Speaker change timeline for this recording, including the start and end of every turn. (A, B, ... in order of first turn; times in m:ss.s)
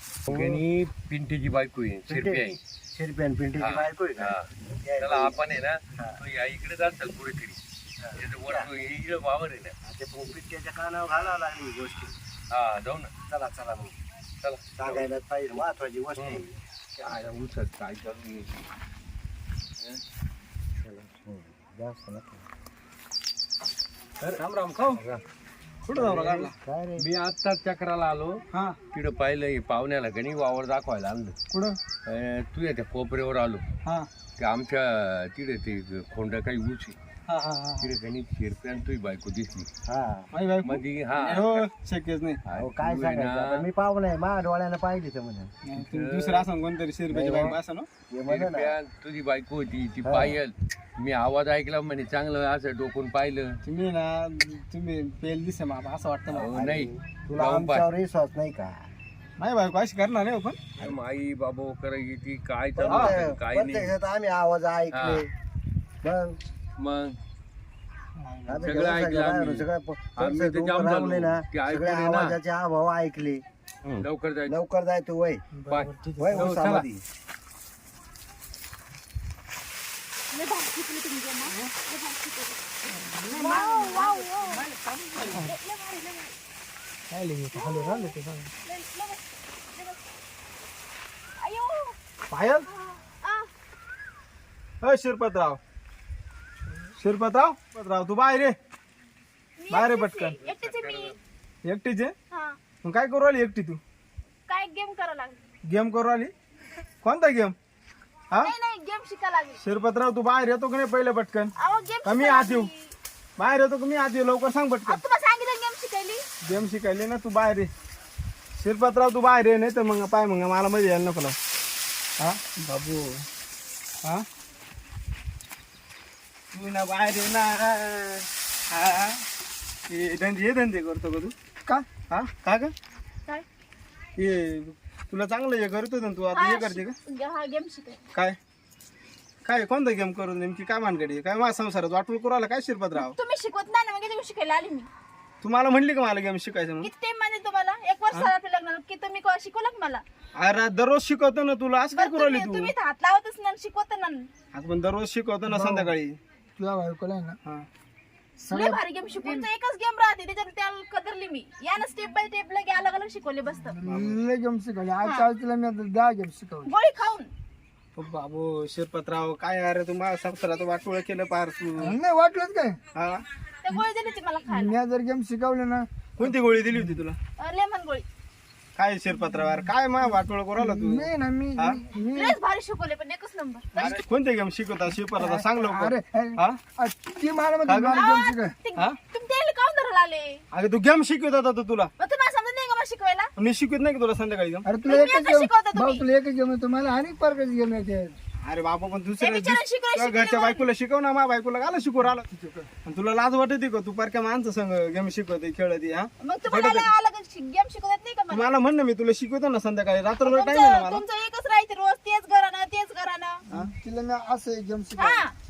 0:00.3-0:00.6 A
0:00.3-0:02.6 B
0:02.1-0:05.4 A
0:03.6-0:04.5 B
0:05.0-0:07.6 B
0:08.0-0:08.7 A
0:08.2-0:09.8 B
0:09.8-0:12.2 A
0:12.5-0:13.1 B
0:13.3-0:14.0 A
0:14.4-0:15.1 B
0:14.8-0:16.5 A
0:16.2-0:16.5 B
0:17.0-0:18.5 B
0:20.8-0:22.4 A
0:24.3-0:25.0 A
0:25.0-0:25.2 B
0:25.9-0:26.5 C
0:25.9-0:27.1 A
0:27.0-0:31.4 B
0:28.5-0:28.8 C
0:31.5-0:31.8 C
0:32.0-0:33.6 B
0:34.4-0:37.0 B
0:37.3-0:37.9 C
0:37.8-0:39.7 B
0:39.9-0:40.3 A
0:40.3-0:42.4 C
0:40.6-0:41.6 B
0:42.5-0:43.7 B
0:42.6-0:45.5 A
0:45.7-0:47.9 C
0:45.8-0:46.5 B
0:47.1-0:47.6 A
0:48.1-0:48.8 A
0:48.3-0:53.6 B
0:50.0-0:50.4 A
0:53.6-0:56.6 C
0:56.3-0:57.9 B
0:56.5-0:58.8 A
0:59.4-1:00.6 C
1:00.8-1:04.0 B
1:02.8-1:05.3 A
1:02.9-1:03.2 C
1:04.9-1:05.3 B
1:06.0-1:06.4 A
1:06.8-1:07.2 B
1:08.5-1:13.4 A
1:08.6-1:12.4 B
1:13.8-1:14.6 B
1:14.0-1:15.4 A
1:15.6-1:16.5 D
1:15.7-1:16.9 B
1:16.2-1:17.0 A
1:20.3-1:22.6 E
1:22.9-1:25.5 D
1:23.3-1:24.7 E
1:25.3-1:26.4 E
1:27.1-1:28.5 D
1:27.5-1:30.0 E
1:31.4-1:32.0 E
1:32.3-1:32.7 C
1:32.7-1:33.5 E
1:34.8-1:35.6 C
1:37.0-1:38.6 C
1:39.6-1:41.2 E
1:39.7-1:41.0 C
1:41.6-1:42.1 C
1:42.3-1:42.6 E
1:42.8-1:43.8 C
1:44.5-1:45.4 E
1:45.6-1:46.3 C
1:47.0-1:47.6 C
1:48.4-1:49.6 E
1:49.6-1:52.7 C
1:51.6-1:53.0 E
1:53.4-1:55.0 C
1:54.9-1:56.3 E
1:56.4-1:57.7 C
1:58.6-2:01.4 C
2:02.2-2:02.5 D
2:02.5-2:03.3 C
2:06.5-2:09.2 C
2:09.9-2:11.4 C
2:12.1-2:12.7 C
2:14.2-2:17.0 C
2:16.3-2:18.0 E
2:19.4-2:23.2 C
2:23.0-2:24.9 E
2:25.4-2:26.9 C
2:26.8-2:30.0 E
2:30.4-2:32.7 C
2:31.9-2:34.3 E
2:34.5-2:36.2 C
2:35.4-2:35.9 D
2:36.6-2:37.4 D
2:38.4-2:43.8 E
2:38.5-2:39.5 D
2:43.8-2:46.7 D
2:43.9-2:44.2 C
2:45.0-2:45.3 E
2:46.6-2:47.3 E
2:48.0-2:52.0 C
2:51.8-2:52.8 D
2:53.0-2:53.2 C
2:53.6-2:54.8 E
2:54.5-2:57.0 D
2:56.2-2:57.2 C
2:57.4-2:58.0 E
2:58.8-3:01.8 C
3:00.6-3:02.4 D
3:02.1-3:04.0 E
3:03.8-3:06.6 C
3:05.2-3:08.5 D
3:07.7-3:08.1 C
3:07.9-3:10.4 E
3:10.5-3:11.9 C
3:12.0-3:13.3 E
3:13.4-3:14.7 C
3:14.6-3:18.2 D
3:14.9-3:16.0 E
3:18.4-3:22.2 C
3:19.2-3:20.6 E
3:22.3-3:22.7 D
3:22.8-3:26.9 C
3:26.2-3:28.5 E
3:28.3-3:31.0 C
3:30.2-3:33.4 E
3:33.5-3:35.3 D
3:35.0-3:35.4 E